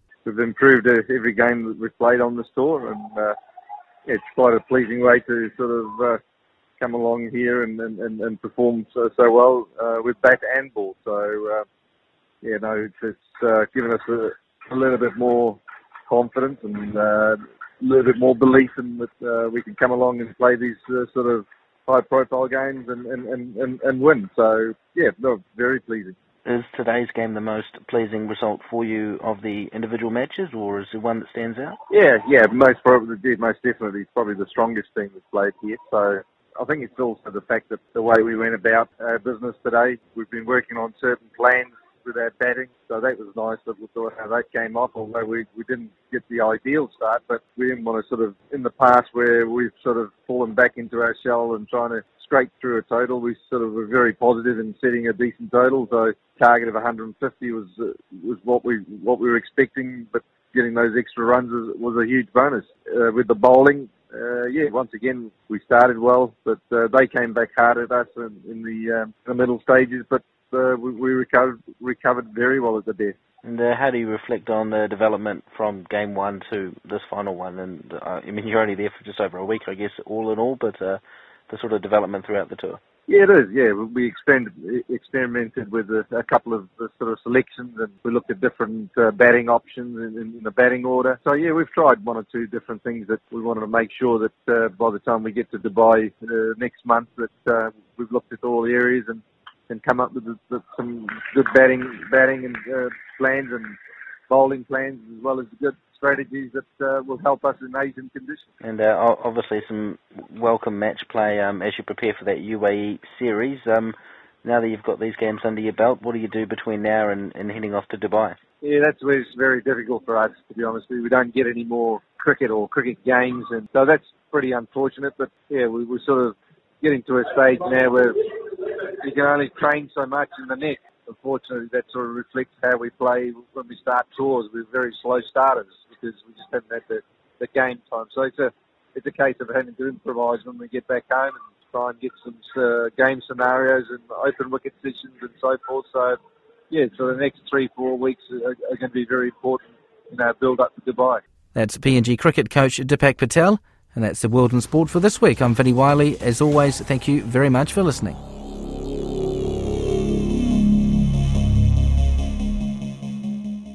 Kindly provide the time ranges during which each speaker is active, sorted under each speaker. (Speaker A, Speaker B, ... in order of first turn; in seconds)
Speaker A: 0.2-3.3, 4.1-6.2, 6.8-11.7, 12.4-26.1, 31.9-73.2, 83.1-103.8, 104.3-108.4, 118.6-128.2, 129.0-146.2, 146.7-151.2
Speaker B: 26.4-31.8, 73.4-82.8, 108.6-118.4
Speaker C: 151.6-158.2